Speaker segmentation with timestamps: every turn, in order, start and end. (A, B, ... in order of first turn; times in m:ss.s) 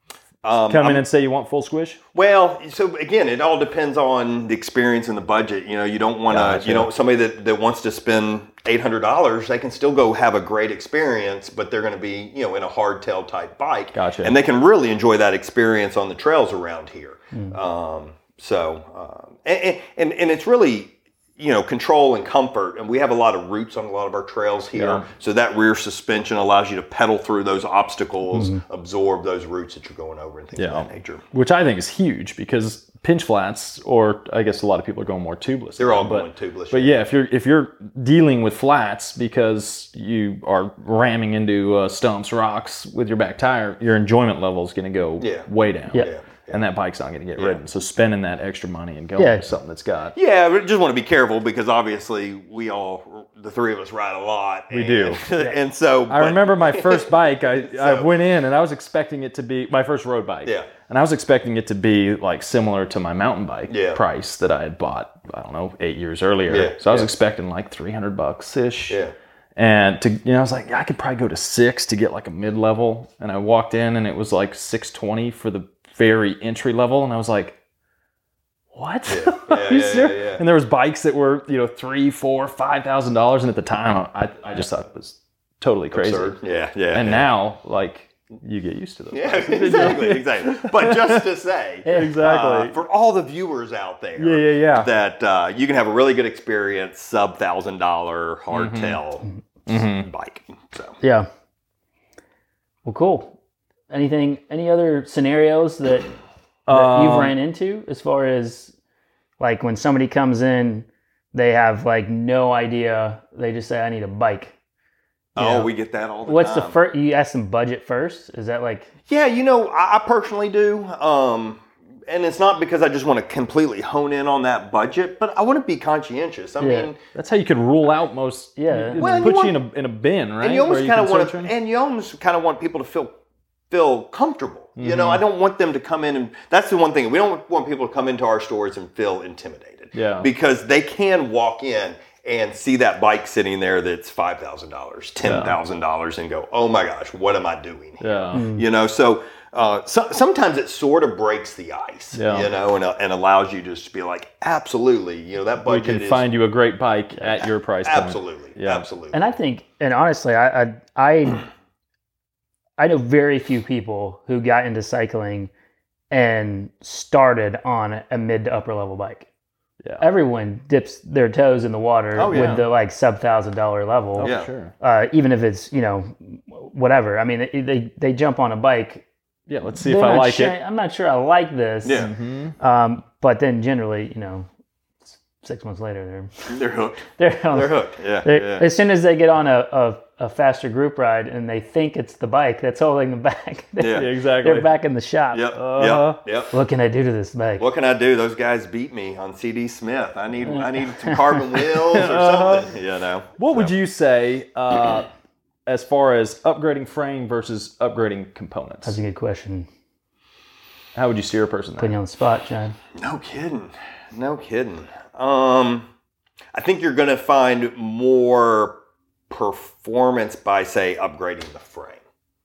0:00.4-0:01.0 A
0:00.6-0:02.0 B
0:02.1-0:31.2 A
0:06.3-0:06.9 B
0:13.9-0:14.3 B
0:24.7-0:25.0 B
0:28.3-0:28.6 C
0:30.6-0:50.2 B
0:35.8-0:37.0 A
0:45.2-0:46.6 A
0:49.2-0:49.4 C
0:50.1-0:58.1 A
0:54.7-0:55.2 B
0:56.1-1:09.0 B
1:00.4-1:00.7 A
1:03.7-1:04.0 A
1:06.5-1:07.1 A
1:08.9-1:09.1 A
1:09.6-1:17.6 B
1:18.7-1:26.3 B
1:19.1-1:20.4 A
1:25.9-1:27.2 A
1:26.9-1:31.2 B
1:29.1-1:41.0 A
1:31.8-1:32.2 C
1:31.9-1:32.8 B
1:34.2-1:34.9 B
1:38.5-1:39.0 B
1:39.7-1:40.1 B
1:41.0-1:41.3 C
1:42.8-1:43.3 C
1:43.9-1:46.1 C
1:46.7-1:47.3 B
1:46.7-1:48.7 C
1:49.4-1:54.5 C
1:55.3-1:55.7 C
1:55.4-1:56.8 A
1:56.2-1:58.9 C
1:59.1-2:07.0 A
2:06.6-2:06.9 C
2:07.1-2:11.5 B
2:08.6-2:09.3 C
2:08.9-2:09.6 A
2:10.4-2:13.2 A
2:13.7-2:36.2 A
2:14.8-2:15.2 B
2:19.9-2:20.3 B
2:25.2-2:25.6 B
2:28.0-2:28.5 B
2:28.3-2:28.6 C
2:32.1-2:32.5 B
2:35.6-2:38.8 B
2:37.8-2:39.2 A
2:39.1-2:41.4 C
2:42.8-2:45.5 C
2:46.1-2:49.3 C
2:50.0-2:59.0 C
2:52.1-2:52.6 A
2:52.3-2:52.6 B
2:54.2-2:54.7 B
2:54.2-2:54.5 A
2:59.5-3:00.6 B
2:59.8-3:04.5 C
3:01.8-3:02.1 A
3:01.9-3:02.5 B
3:05.1-3:06.5 C
3:06.5-3:08.7 A
3:07.1-3:15.5 C
3:13.8-3:14.1 A
3:13.9-3:14.7 B
3:15.3-3:16.5 A
3:15.5-3:16.2 B
3:16.5-3:17.6 C
3:17.6-3:23.7 A
3:20.5-3:21.2 C
3:21.8-3:22.7 B
3:23.4-3:25.1 B
3:25.7-3:29.0 B
3:28.8-3:29.7 C
3:30.9-3:31.9 B
3:31.8-3:32.8 C
3:33.0-3:35.9 A
3:36.5-3:38.8 A
3:39.3-3:42.0 A